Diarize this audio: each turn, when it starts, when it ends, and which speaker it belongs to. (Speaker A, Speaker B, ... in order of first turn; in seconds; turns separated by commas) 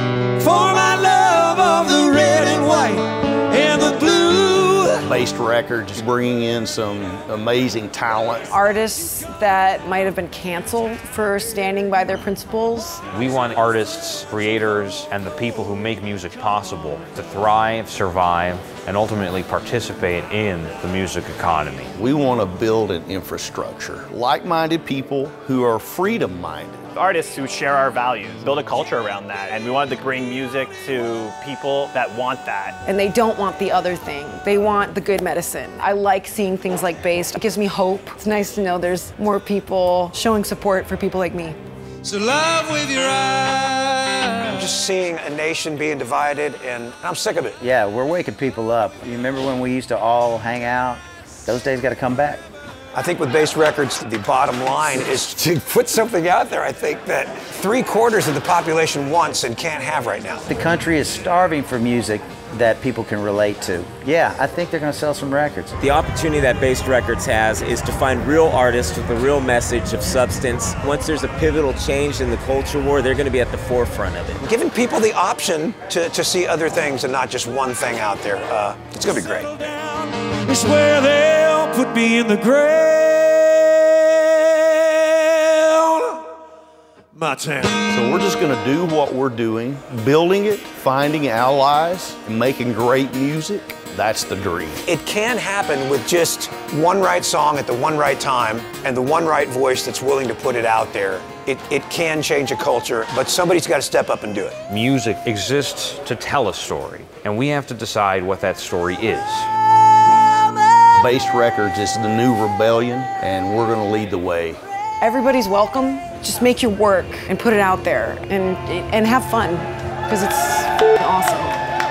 Speaker A: 0.4-5.0, Speaker B: 5.0-8.5, Speaker C: 8.5-13.0, Speaker D: 13.1-21.9, Speaker B: 22.0-26.8, Speaker E: 26.9-32.7, Speaker C: 32.9-41.6, Speaker A: 42.0-44.1, Speaker F: 44.5-47.6, Speaker G: 47.6-52.4, Speaker F: 52.9-60.5, Speaker G: 60.5-65.7, Speaker H: 65.8-74.4, Speaker F: 74.4-79.7, Speaker A: 80.4-85.9, Speaker A: 87.1-87.8, Speaker B: 87.9-94.8, Speaker F: 94.8-104.6, Speaker D: 104.7-109.5, Speaker B: 111.0-114.6, Speaker C: 115.0-121.5